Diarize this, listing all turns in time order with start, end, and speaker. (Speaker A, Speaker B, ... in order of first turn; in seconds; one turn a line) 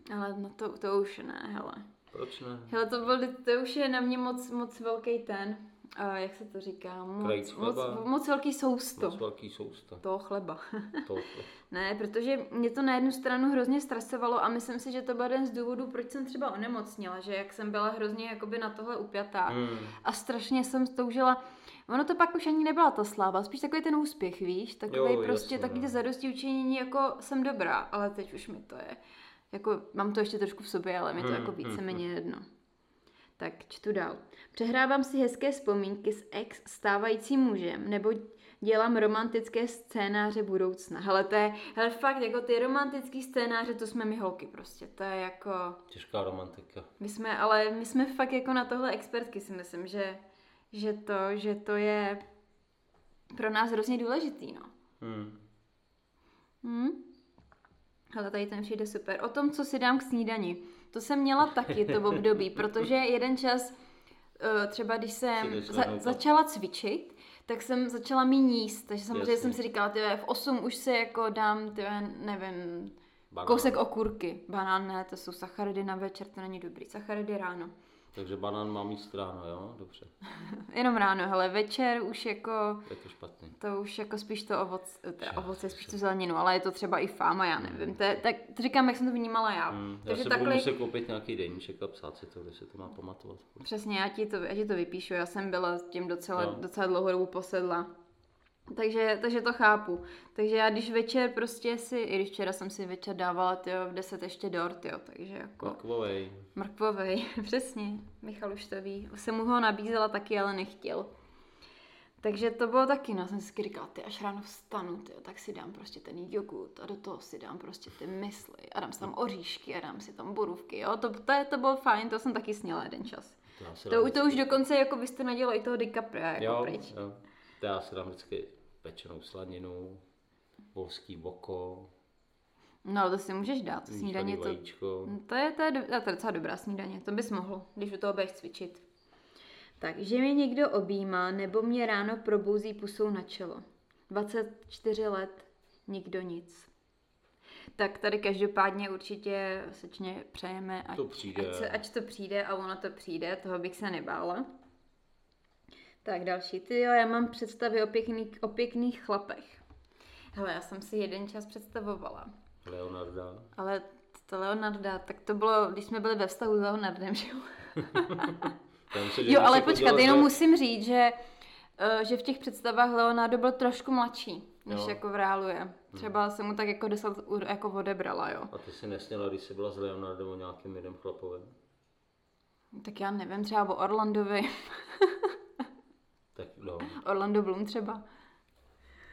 Speaker A: 0.1-1.9
Speaker B: 2.1-2.8
Speaker A: 2.7-9.2
Speaker B: 7.2-8.1
Speaker B: 9.0-10.0
Speaker A: 10.0-11.1
Speaker B: 11.1-11.5
Speaker A: 11.7-29.0
Speaker B: 19.5-20.0
Speaker B: 24.9-25.9
Speaker A: 29.5-32.5
Speaker B: 31.2-32.0
Speaker A: 33.4-45.8
Speaker B: 45.9-46.9
Speaker A: 47.0-52.2
Speaker A: 53.3-54.7
Speaker B: 55.0-55.4
Speaker A: 56.6-57.0
Speaker A: 58.1-63.7
Speaker B: 61.9-62.2
Speaker A: 64.4-77.7
Speaker B: 65.4-66.2
Speaker B: 69.1-69.6
Speaker B: 73.3-73.8
Speaker B: 78.1-80.1
Speaker A: 80.4-82.9
Speaker B: 82.8-83.6
Speaker A: 83.5-90.7
Speaker B: 85.2-86.0
Speaker B: 87.6-88.0
Speaker B: 89.7-93.6
Speaker A: 93.6-97.9
Speaker B: 96.4-96.6
Speaker A: 98.7-105.8
Speaker B: 105.6-106.5
Speaker A: 106.5-111.1
Speaker A: 112.2-123.4
Speaker B: 123.5-124.5
Speaker A: 123.9-126.9
Speaker B: 126.4-130.0
Speaker B: 130.7-131.9
Speaker A: 132.8-138.8
Speaker B: 133.9-135.1
Speaker A: 139.8-146.7
Speaker A: 147.8-154.5
Speaker B: 150.9-151.8
Speaker A: 156.0-159.6
Speaker A: 160.3-162.3
Speaker B: 162.6-163.5
Speaker A: 163.6-168.5
Speaker B: 168.0-170.4
Speaker A: 169.1-171.2
Speaker A: 171.8-178.5
Speaker B: 174.7-175.0
Speaker B: 178.5-181.5
Speaker A: 182.8-185.4
Speaker B: 186.3-186.9
Speaker A: 186.8-188.0